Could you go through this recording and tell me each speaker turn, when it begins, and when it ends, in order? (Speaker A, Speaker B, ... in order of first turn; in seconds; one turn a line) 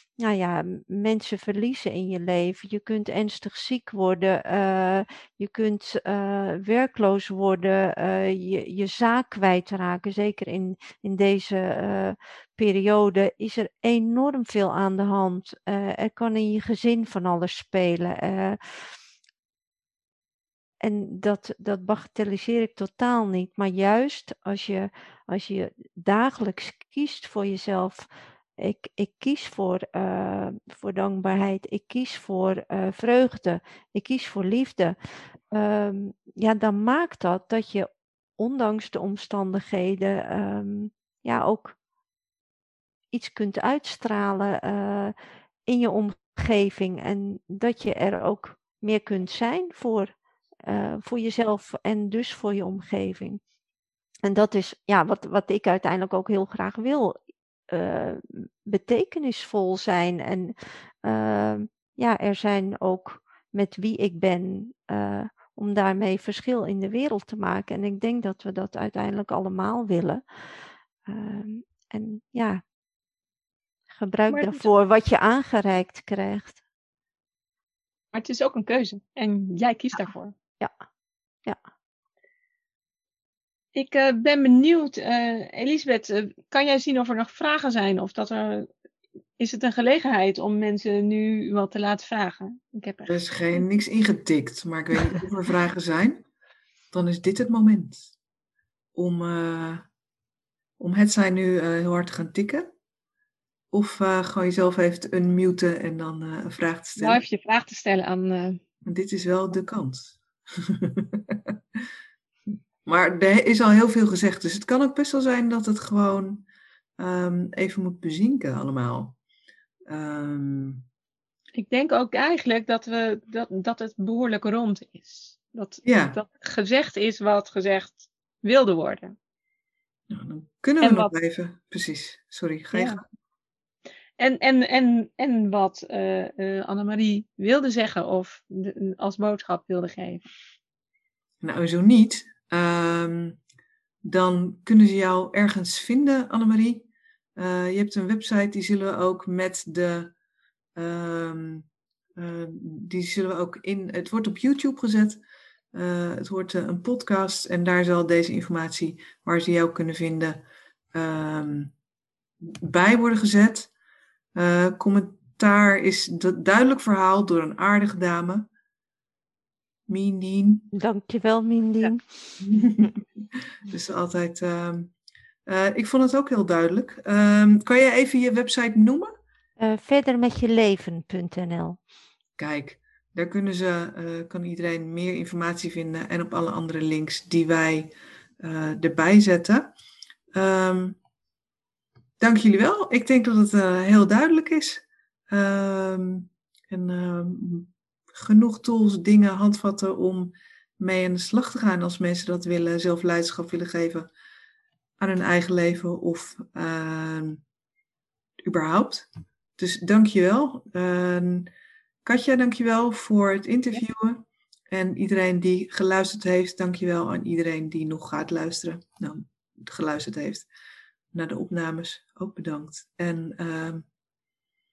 Speaker A: 0.2-18.9
Speaker A: 20.8-35.0
Speaker A: 35.5-41.8
Speaker A: 43.1-45.1
Speaker A: 45.7-50.1
Speaker A: 50.6-53.4
Speaker A: 54.2-57.1
Speaker A: 57.7-70.2
Speaker A: 71.0-72.6
Speaker A: 73.9-76.6
Speaker B: 74.3-74.6
Speaker B: 78.1-80.3
Speaker B: 83.7-88.7
Speaker B: 89.4-93.6
Speaker C: 93.0-96.2
Speaker C: 96.9-98.1
Speaker C: 98.9-99.9
Speaker C: 100.8-102.7
Speaker C: 103.7-107.2
Speaker B: 107.0-108.6
Speaker C: 108.8-111.5
Speaker C: 112.8-116.5
Speaker C: 117.0-119.2
Speaker C: 119.9-120.9
Speaker B: 121.5-129.1
Speaker C: 125.8-126.2
Speaker C: 130.1-133.0
Speaker B: 130.8-131.1
Speaker B: 132.7-133.0
Speaker B: 134.2-140.2
Speaker C: 141.4-143.4
Speaker C: 144.0-150.1
Speaker C: 150.7-155.2
Speaker C: 155.7-161.7
Speaker C: 162.4-163.7
Speaker C: 164.3-168.5
Speaker C: 169.9-170.7
Speaker A: 170.7-172.0
Speaker C: 172.4-173.0
Speaker C: 173.7-174.9
Speaker C: 175.4-179.1
Speaker A: 179.6-181.8
Speaker C: 182.4-189.7
Speaker C: 190.3-191.0
Speaker C: 192.2-204.1
Speaker C: 205.0-207.4
Speaker C: 208.4-211.5
Speaker C: 212.0-220.5
Speaker C: 221.1-223.8